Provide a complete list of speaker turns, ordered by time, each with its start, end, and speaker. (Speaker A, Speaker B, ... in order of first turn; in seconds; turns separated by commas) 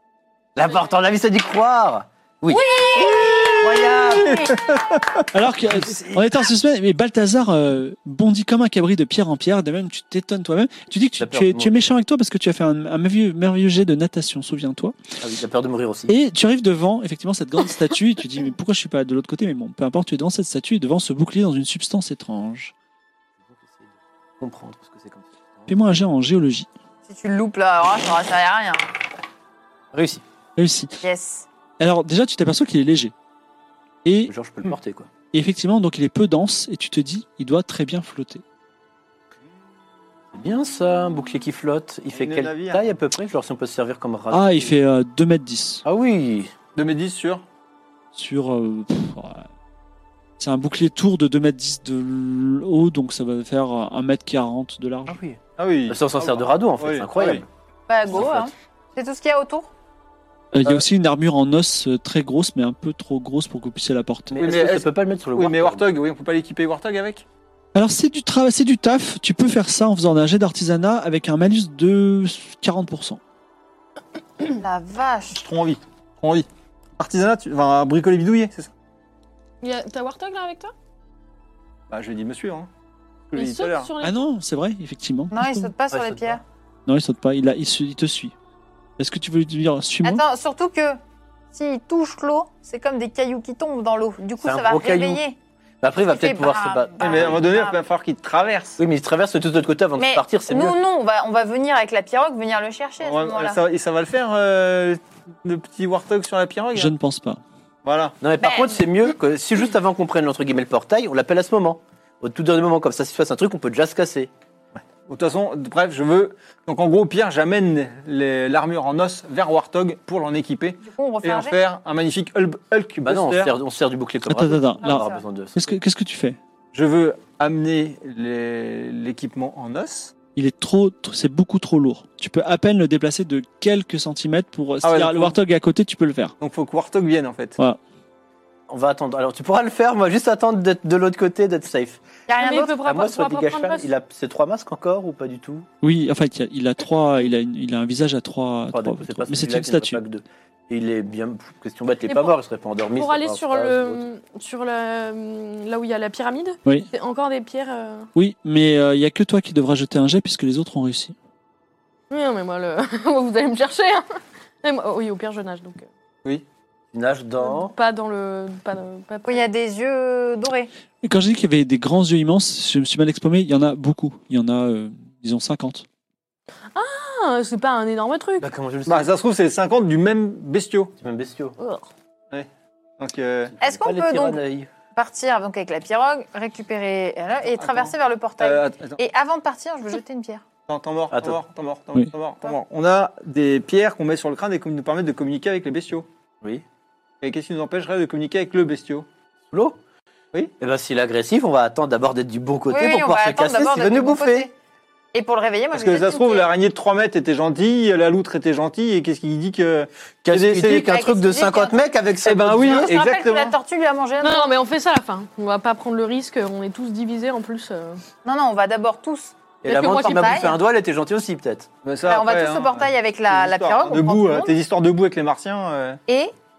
Speaker A: 0.6-3.1, Speaker B: 2.5-3.3, Speaker C: 2.7-4.6, Speaker D: 3.0-5.3, Speaker A: 3.7-4.4, Speaker E: 5.3-15.0, Speaker A: 5.8-6.2, Speaker A: 11.2-11.8, Speaker A: 15.2-16.1, Speaker E: 16.1-22.7, Speaker A: 23.5-25.7, Speaker E: 25.7-26.7, Speaker C: 27.1-28.9, Speaker A: 29.9-30.2, Speaker E: 30.6-31.0, Speaker C: 31.0-31.5, Speaker E: 31.8-33.1, Speaker E: 34.0-34.3, Speaker A: 34.3-35.1, Speaker E: 35.3-38.4, Speaker A: 40.3-44.8, Speaker D: 42.1-42.9, Speaker E: 44.3-45.9, Speaker A: 45.9-46.5, Speaker D: 46.8-47.4, Speaker E: 48.1-49.5, Speaker E: 50.4-55.2, Speaker A: 55.1-57.5, Speaker D: 55.6-57.5, Speaker C: 57.9-59.7, Speaker A: 58.1-58.5, Speaker E: 60.5-64.4, Speaker A: 64.3-65.9, Speaker D: 64.4-67.2, Speaker E: 67.7-73.2, Speaker C: 74.5-75.4, Speaker D: 75.3-76.5, Speaker D: 77.0-78.7, Speaker B: 79.6-80.7, Speaker D: 81.9-82.7, Speaker D: 83.3-83.9, Speaker B: 83.3-84.2, Speaker E: 84.0-85.7, Speaker C: 85.3-86.4, Speaker A: 85.9-86.4, Speaker E: 86.9-88.3, Speaker E: 89.0-90.2, Speaker C: 90.0-91.0, Speaker C: 91.5-95.4, Speaker A: 94.4-95.2, Speaker A: 95.8-97.4, Speaker C: 96.1-97.8, Speaker D: 97.0-98.8, Speaker A: 98.8-100.8, Speaker C: 100.0-103.6, Speaker D: 103.0-106.9, Speaker E: 106.8-107.4, Speaker D: 107.8-108.2, Speaker A: 108.2-114.3, Speaker C: 108.4-108.8, Speaker D: 115.1-123.5, Speaker C: 120.8-121.6, Speaker A: 123.0-125.7, Speaker E: 124.3-126.4, Speaker C: 124.8-125.2, Speaker D: 126.7-130.1, Speaker E: 130.4-136.3, Speaker D: 134.8-135.4, Speaker D: 136.4-137.6, Speaker A: 138.7-142.0, Speaker C: 142.3-142.8, Speaker B: 142.4-143.9, Speaker A: 142.8-145.7, Speaker E: 145.8-150.0, Speaker A: 148.7-154.0, Speaker B: 152.1-152.3, Speaker B: 153.0-158.1, Speaker E: 158.2-161.2, Speaker B: 162.1-165.9, Speaker A: 166.9-167.8, Speaker B: 167.4-169.5, Speaker C: 169.3-170.7, Speaker E: 171.0-175.9, Speaker B: 176.7-178.5, Speaker A: 178.4-179.1, Speaker D: 178.9-180.9, Speaker A: 181.0-181.6, Speaker B: 181.6-181.9, Speaker D: 183.0-183.5, Speaker A: 183.6-184.7, Speaker C: 183.6-184.4, Speaker C: 184.9-190.4, Speaker D: 187.5-189.0, Speaker D: 190.7-196.1, Speaker A: 191.1-191.4, Speaker D: 197.2-199.1, Speaker A: 199.5-199.8, Speaker A: 200.6-204.5, Speaker C: 202.7-204.5, Speaker C: 205.1-206.5, Speaker D: 205.7-210.9, Speaker A: 210.2-212.9, Speaker C: 210.7-211.8, Speaker D: 212.2-213.6, Speaker C: 212.7-214.5, Speaker B: 214.2-218.0, Speaker C: 218.2-220.6, Speaker A: 219.6-221.7, Speaker B: 219.7-220.6, Speaker D: 221.8-226.0, Speaker C: 222.1-224.5